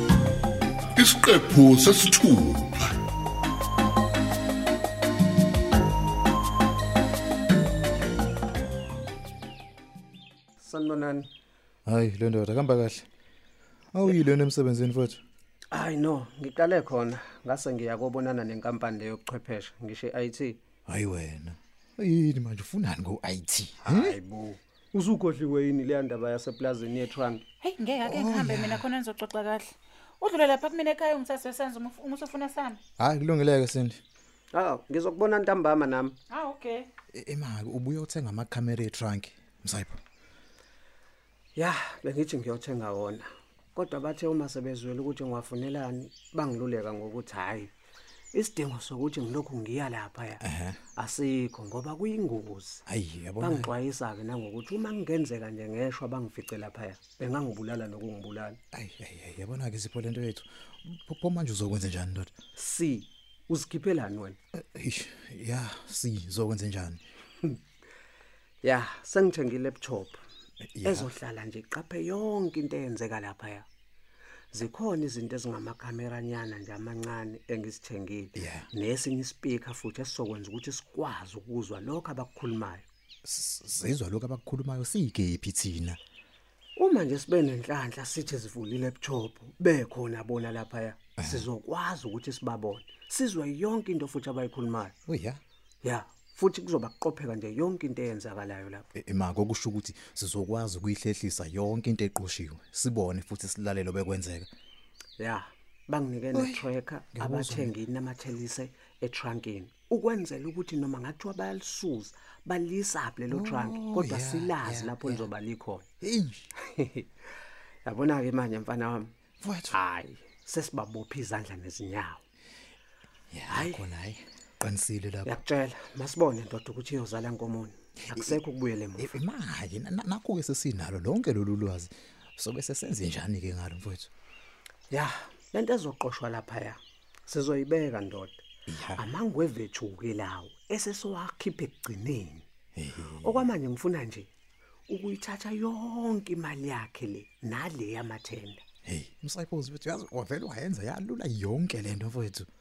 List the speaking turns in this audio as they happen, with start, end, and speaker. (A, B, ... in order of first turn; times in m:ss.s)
0:01.0-0:02.9 A
0:10.6-0:11.3 B
0:11.9-0:13.1 C
0:13.9-0:15.2 C
0:15.7-0:20.6 B
0:20.9-0:24.2 C
0:23.8-0:27.4 B
0:27.6-0:32.8 D
0:28.0-0:28.9 C
0:33.0-0:34.0 C
0:34.5-0:36.2 B
0:36.3-0:36.9 D
0:37.1-0:40.0 C
0:41.6-0:47.7 B
0:48.3-0:50.4 B
0:50.4-0:50.8 C
0:51.0-0:52.8 B
0:52.9-0:53.7 C
0:53.4-0:58.6 B
0:58.7-1:02.3 C
1:02.6-1:04.4 B
1:04.5-1:07.0 C
1:08.6-1:10.2 B
1:10.7-1:11.1 C
1:10.8-1:13.7 B
1:14.5-1:22.9 B
1:18.4-1:18.7 C
1:23.2-1:26.0 C
1:26.8-1:34.9 B
1:31.2-1:31.5 C
1:35.1-1:35.4 C
1:35.8-1:38.9 B
1:39.0-1:44.5 C
1:45.2-1:55.9 B
1:46.3-1:47.7 C
1:53.3-1:55.3 C
1:56.0-1:56.5 C
1:56.6-1:57.1 B
1:57.8-1:59.1 B
1:59.4-1:59.8 C
1:59.7-2:02.2 B
2:03.3-2:05.4 C
2:03.5-2:03.8 B
2:05.2-2:09.2 B
2:08.1-2:08.4 C
2:09.0-2:14.1 C
2:14.9-2:18.4 B
2:18.7-2:19.0 C
2:19.0-2:22.4 B
2:22.8-2:23.5 C
2:23.2-2:24.3 B
2:24.9-2:28.6 B
2:28.8-2:32.5 C